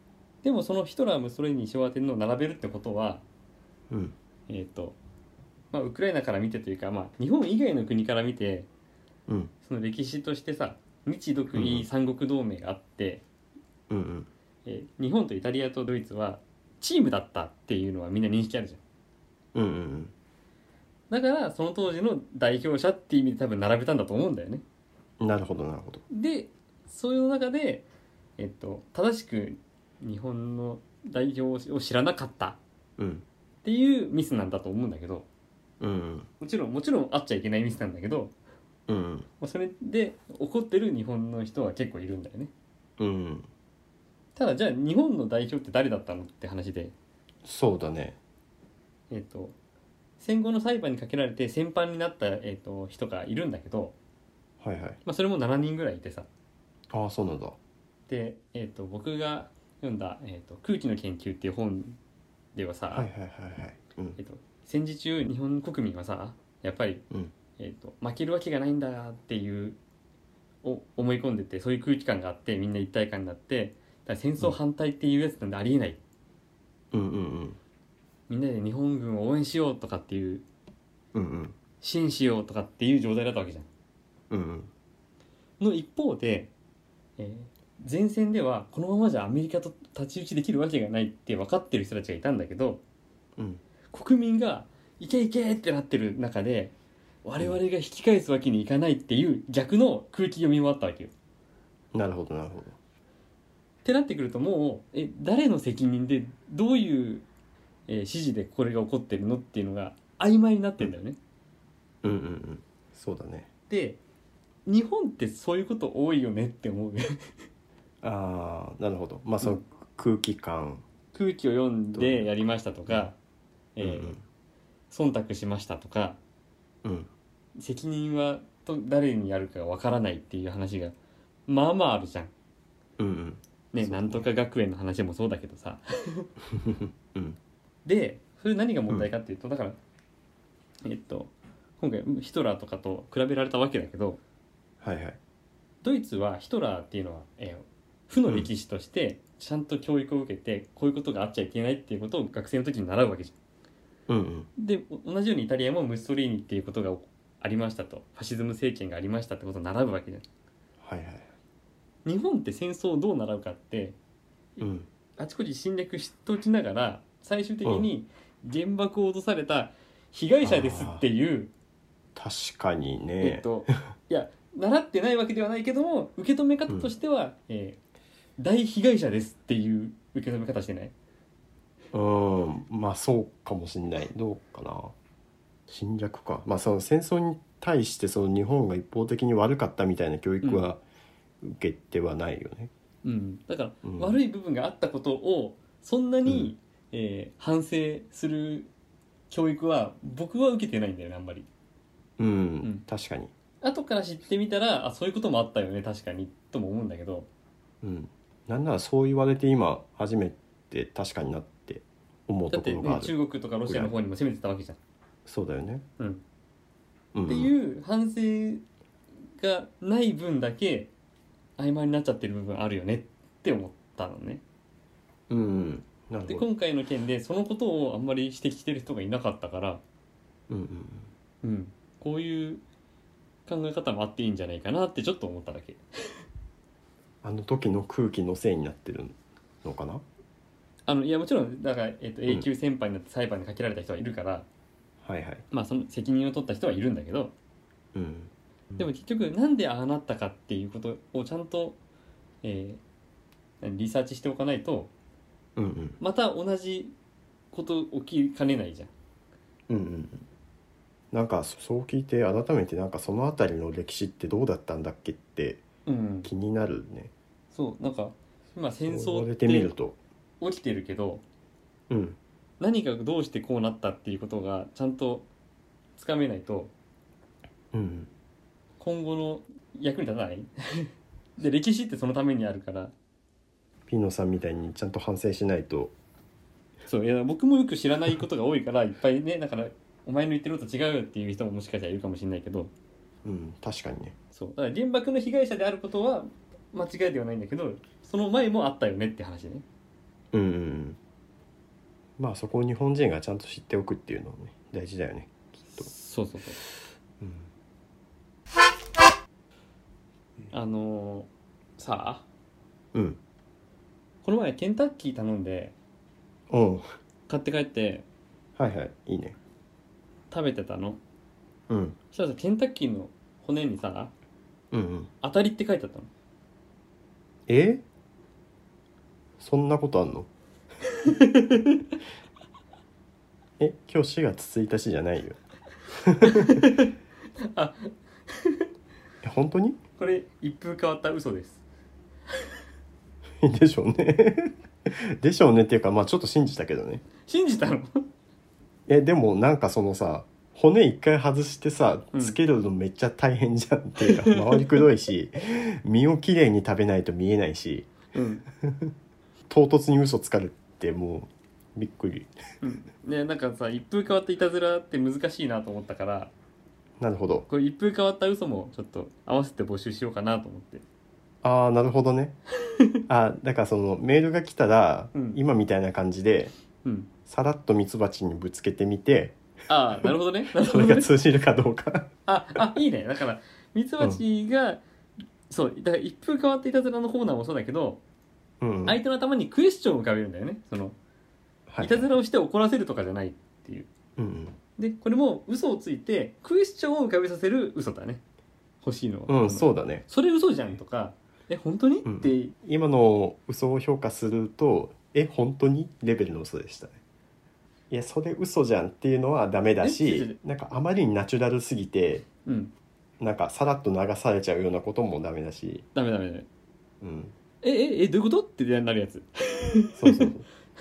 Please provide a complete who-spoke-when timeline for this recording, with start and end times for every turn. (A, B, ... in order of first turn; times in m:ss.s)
0:00.4-0:03.2 A
0:04.5-0:05.0 A
0:05.7-0:08.7 A
0:09.3-0:09.5 B
0:09.6-0:13.2 A
0:11.5-0:11.8 B
0:13.9-0:14.3 B
0:14.6-0:18.8 A
0:19.5-0:20.1 B
0:21.1-0:24.6 A
0:25.2-0:26.0 B
0:26.1-0:27.8 A
0:28.4-0:32.6 A
0:33.0-0:33.2 B
0:33.6-0:35.2 A
0:35.8-0:36.3 B
0:36.4-0:38.3 A
0:38.9-0:39.3 B
0:39.4-0:42.5 A
0:43.0-0:43.5 B
0:44.4-0:46.9 A
0:47.4-0:48.2 B
0:49.1-0:49.5 A
0:50.2-0:53.9 A
0:54.6-0:55.0 B
0:55.0-0:56.3 A
0:56.9-0:57.6 B
0:58.1-1:02.0 A
1:02.5-1:03.1 A
1:02.9-1:04.2 B
1:04.2-1:07.0 A
1:07.6-1:09.8 A
1:10.6-1:16.0 A
1:16.9-1:17.6 B
1:18.3-1:20.4 A
1:21.1-1:21.6 B
1:21.8-1:23.7 A
1:24.3-1:24.7 B
1:25.6-1:26.5 A
1:27.2-1:32.8 A
1:33.9-1:36.7 A
1:37.2-1:41.1 A
1:41.9-1:42.8 B
1:43.8-1:47.2 A
1:47.9-1:51.2 A
1:52.0-1:53.5 B
1:53.7-1:54.0 A
1:54.6-1:57.2 A
1:58.0-2:00.8 B
2:01.1-2:03.2 A
2:02.0-2:02.3 B
2:03.8-2:04.2 A
2:03.8-2:04.2 B
2:04.9-2:06.2 A
2:06.8-2:07.1 B
2:07.6-2:10.9 A
2:11.5-2:12.3 A
2:13.0-2:14.3 B
2:13.7-2:16.3 A
2:16.5-2:17.4 B
2:17.8-2:19.8 A
2:20.8-2:24.2 A
2:24.8-2:25.2 B
2:25.8-2:33.3 A
2:34.1-2:34.5 B
2:34.6-2:40.2 A
2:40.8-2:41.3 B
2:42.0-2:44.0 A
2:44.6-2:44.9 B
2:45.2-2:51.5 A
2:47.6-2:47.9 B
2:50.4-2:51.0 B
2:52.1-2:53.7 B
2:53.2-2:57.8 A
2:58.4-3:00.9 A
3:01.9-3:04.9 B
3:05.7-3:10.8 B
3:10.4-3:10.7 A
3:11.4-3:12.7 B
3:13.0-3:18.7 A
3:13.8-3:14.2 B
3:16.2-3:16.5 B
3:19.3-3:21.5 A
3:22.2-3:23.3 B
3:23.6-3:27.3 A
3:27.8-3:33.1 B
3:32.5-3:34.8 A
3:33.6-3:33.9 B
3:35.2-3:35.8 B
3:37.1-3:37.5 B
3:37.2-3:38.6 A
3:39.4-3:40.9 A
3:41.6-3:44.4 A
3:45.3-3:46.4 B
3:46.3-3:49.8 A
3:50.5-3:51.1 B
3:51.4-3:52.6 A
3:53.5-3:55.8 A
3:57.2-4:00.0 B
4:00.9-4:04.5 A
4:05.0-4:05.4 B
4:05.5-4:07.3 A
4:07.9-4:08.8 B
4:08.8-4:11.8 A
4:12.4-4:12.8 A
4:13.6-4:14.9 A
4:15.6-4:16.0 B
4:16.0-4:16.9 A
4:17.5-4:18.9 A
4:19.7-4:20.2 B
4:21.1-4:25.6 B
4:25.8-4:26.3 A
4:26.2-4:27.1 B
4:27.5-4:29.7 A
4:28.9-4:30.0 B
4:30.4-4:31.2 A
4:31.9-4:32.2 B
4:32.6-4:35.3 A
4:36.0-4:36.7 A
4:37.7-4:38.1 B
4:38.8-4:42.9 A
4:43.9-4:45.9 B
4:46.9-4:52.7 A
4:53.2-4:54.1 B
4:54.3-4:59.6 A
5:00.3-5:01.0 B
5:02.2-5:05.9 B
5:05.7-5:06.6 A
5:07.2-5:07.5 B
5:10.5-5:12.2 A
5:14.2-5:15.7 A
5:16.5-5:16.8 B
5:17.3-5:18.0 A
5:18.6-5:19.4 B
5:20.3-5:21.0 A
5:21.7-5:22.0 B
5:22.1-5:24.1 A
5:24.7-5:25.1 B
5:25.2-5:26.1 A
5:27.5-5:27.8 B
5:29.4-5:30.3 B
5:30.8-5:31.9 A
5:33.6-5:35.4 B
5:35.9-5:36.7 B
5:36.2-5:38.6 A
5:39.2-5:39.8 B
5:40.0-5:41.6 A
5:43.4-5:47.0 B
5:47.2-5:48.0 A
5:48.9-5:58.0 B
5:54.0-5:54.8 A
5:58.1-5:58.4 A
5:58.6-5:58.9 B
5:59.5-6:02.3 B
6:02.6-6:06.3 A
6:07.0-6:07.5 B
6:07.5-6:10.8 A
6:11.4-6:12.3 B
6:13.1-6:16.5 B
6:15.1-6:15.4 A
6:16.8-6:17.1 A
6:17.2-6:19.4 B
6:19.7-6:21.1 A
6:20.0-6:22.1 B
6:22.3-6:24.8 A
6:25.5-6:28.0 A
6:28.6-6:29.0 B
6:28.8-6:31.0 A
6:31.7-6:32.1 B
6:31.8-6:33.9 A
6:34.2-6:34.6 B
6:34.8-6:38.2 A
6:38.8-6:42.5 A
6:39.3-6:40.0 B
6:42.0-6:47.0 B
6:47.9-6:52.2 B
6:49.8-6:50.4 A
6:52.4-6:52.7 A
6:53.2-6:55.8 B
6:55.9-6:56.5 A
6:57.0-6:57.3 B
6:57.6-7:00.3 A
7:00.0-7:00.4 B